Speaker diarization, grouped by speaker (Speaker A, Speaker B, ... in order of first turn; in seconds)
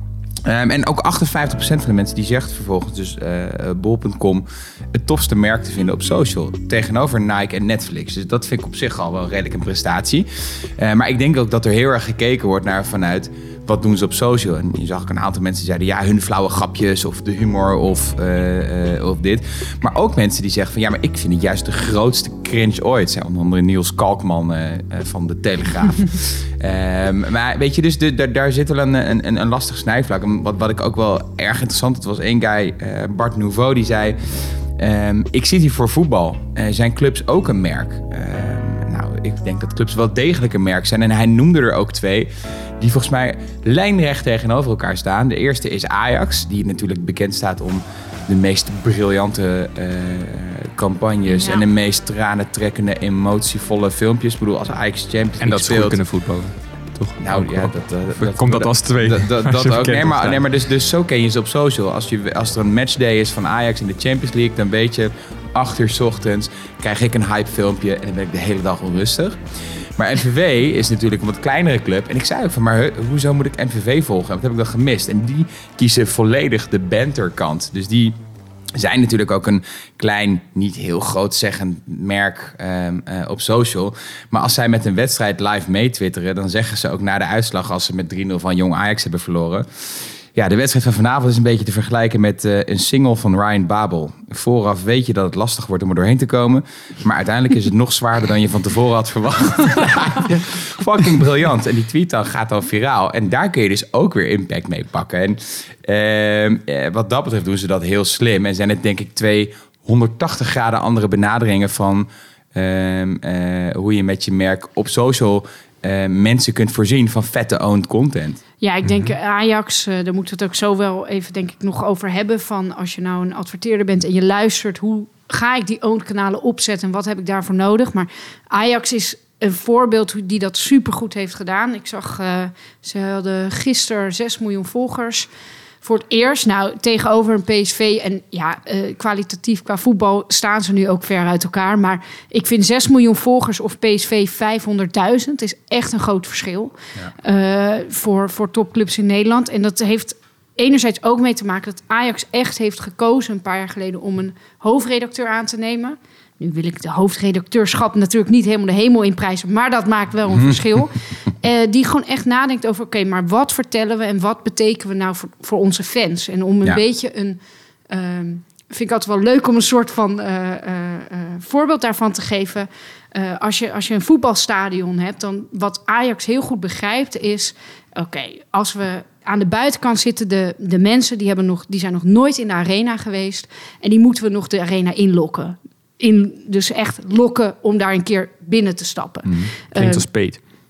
Speaker A: 0.4-56.0, 57.2-69.4, 70.0-78.2, 78.7-118.4, 160.3-160.6, 189.2-189.5
Speaker B: 51.3-51.6, 118.6-135.3, 135.8-167.4, 167.9-190.0
Speaker C: 55.4-60.4, 118.8-119.1, 189.7-190.4